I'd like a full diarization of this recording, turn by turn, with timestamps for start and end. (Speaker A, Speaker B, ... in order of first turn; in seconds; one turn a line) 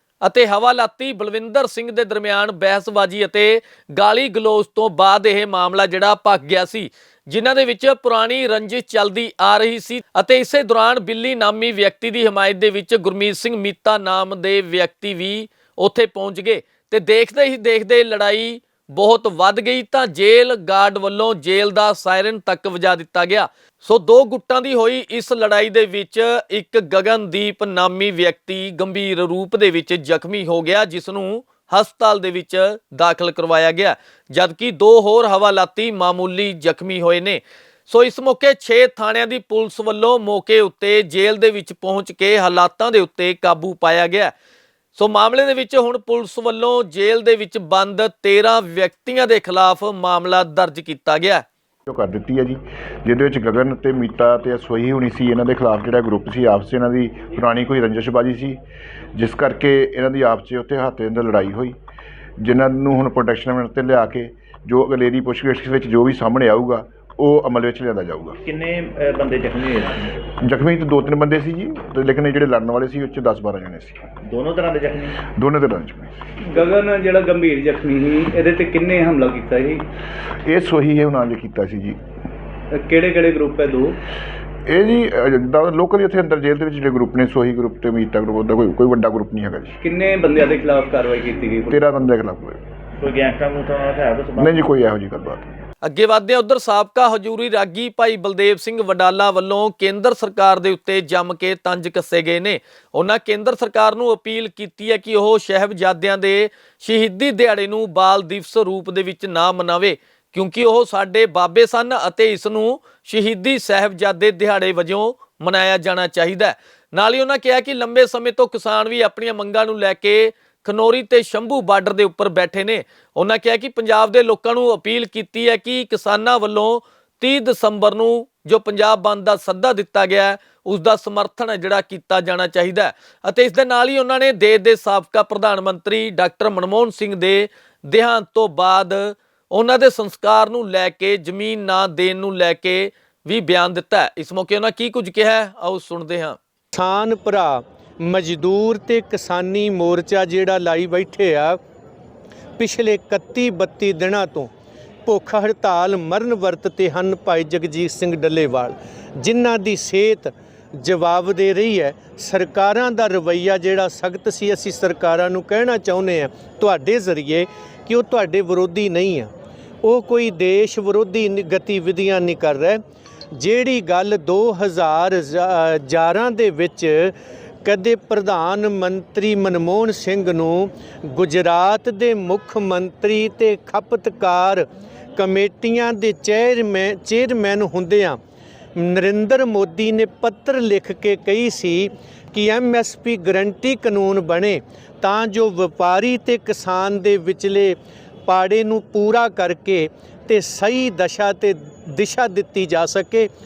Speaker A: 0.2-44.3
Speaker A: 45.0-51.5
Speaker B: 51.9-58.6
Speaker B: 59.2-61.8
Speaker B: 62.4-68.4
Speaker C: 68.4-70.1
Speaker B: 70.5-74.1
Speaker C: 74.2-75.2
Speaker B: 75.3-76.2
Speaker D: 76.5-79.8
Speaker B: 80.5-82.0
Speaker D: 82.7-84.0
Speaker B: 84.7-89.8
Speaker D: 89.8-91.8
Speaker B: 91.7-92.6
Speaker C: 93.0-94.6
Speaker B: 94.4-95.5
Speaker A: 95.8-146.4
Speaker E: 146.7-151.6
Speaker E: 152.6-154.5
Speaker E: 155.1-169.3
Speaker E: 169.8-172.8
Speaker E: 173.4-188.2
Speaker E: 188.8-203.3